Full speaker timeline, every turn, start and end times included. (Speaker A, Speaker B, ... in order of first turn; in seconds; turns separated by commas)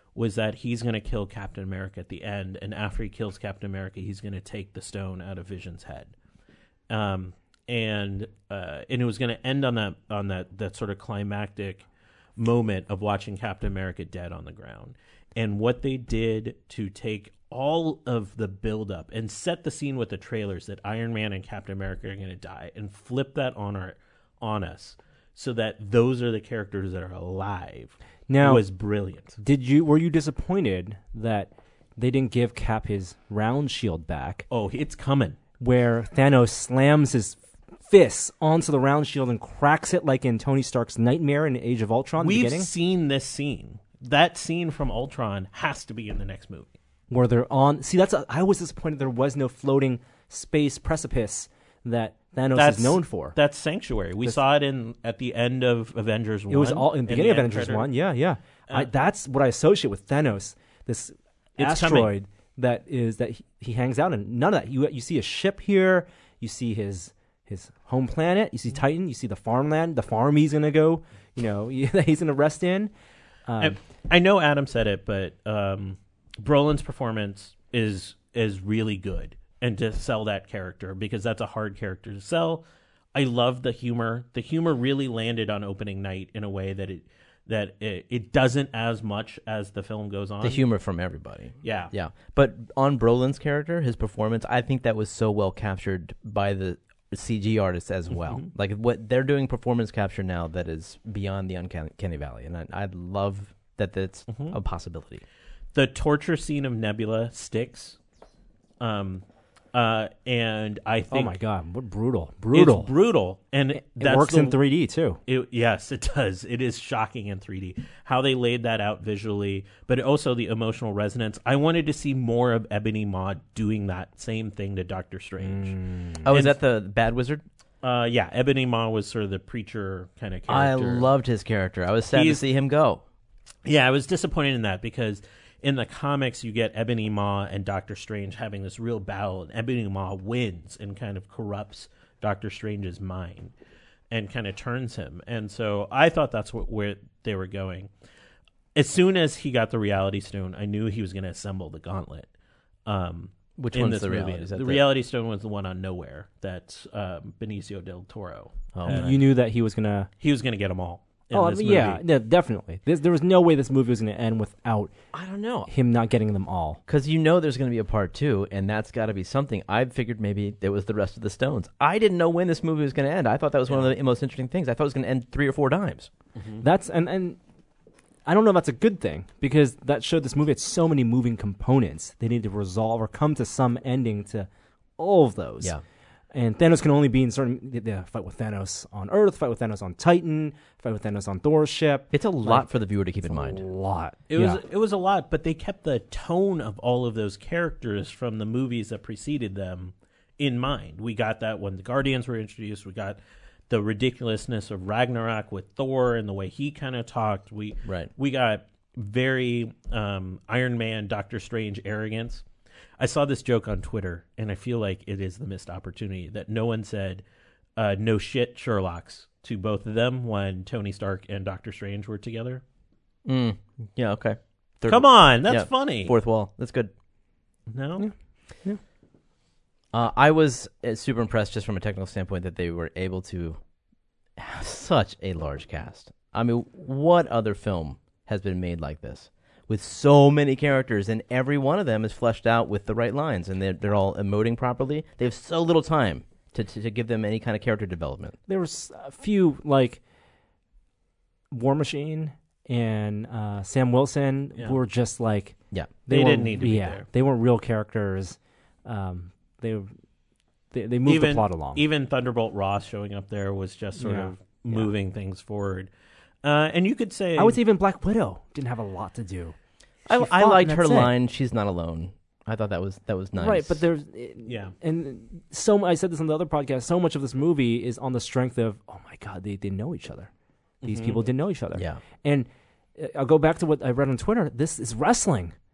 Speaker A: 0.1-6.1, Speaker A: 6.9-11.8, Speaker A: 12.4-29.4, Speaker B: 28.3-28.6, Speaker B: 29.4-34.5, Speaker A: 34.5-35.4, Speaker B: 35.6-42.7, Speaker A: 42.2-46.7, Speaker B: 47.1-53.4, Speaker A: 52.5-57.9, Speaker B: 56.5-72.9, Speaker A: 61.6-62.1, Speaker B: 73.5-73.8, Speaker A: 73.6-90.6, Speaker C: 90.4-105.2, Speaker A: 91.6-91.9, Speaker A: 104.3-104.6, Speaker A: 105.7-108.0, Speaker A: 108.8-111.3, Speaker B: 111.1-112.9, Speaker A: 112.5-114.6, Speaker B: 113.8-115.2, Speaker A: 115.3-126.6, Speaker B: 125.4-126.3, Speaker C: 126.2-127.4, Speaker A: 127.8-131.1, Speaker C: 130.5-133.0, Speaker A: 132.1-132.4, Speaker A: 133.7-143.5, Speaker A: 144.1-147.9, Speaker A: 148.8-152.3, Speaker A: 152.9-159.2, Speaker C: 153.6-154.8, Speaker C: 158.8-159.2, Speaker B: 158.9-160.1, Speaker A: 160.2-162.0, Speaker B: 161.3-164.9, Speaker C: 165.1-165.7, Speaker B: 165.7-166.8, Speaker C: 166.9-176.1, Speaker B: 176.6-177.4, Speaker B: 178.3-185.8, Speaker B: 186.3-192.7, Speaker C: 192.1-193.6, Speaker B: 193.3-194.6, Speaker A: 194.3-203.2, Speaker A: 203.7-212.4, Speaker A: 213.0-217.2, Speaker A: 217.8-222.6, Speaker C: 223.2-226.9, Speaker A: 224.9-226.1, Speaker A: 227.7-228.1, Speaker C: 229.9-233.6, Speaker C: 234.4-248.4, Speaker B: 248.5-250.0, Speaker B: 251.5-255.6, Speaker A: 256.1-257.1, Speaker B: 256.1-259.9, Speaker B: 260.7-261.8, Speaker A: 261.1-265.9, Speaker B: 264.0-264.9, Speaker A: 266.4-267.6, Speaker B: 267.4-269.6, Speaker C: 270.1-273.8, Speaker B: 270.1-271.1, Speaker B: 273.4-280.3, Speaker A: 274.5-274.7, Speaker A: 280.8-281.2, Speaker B: 280.8-285.6, Speaker C: 281.8-282.0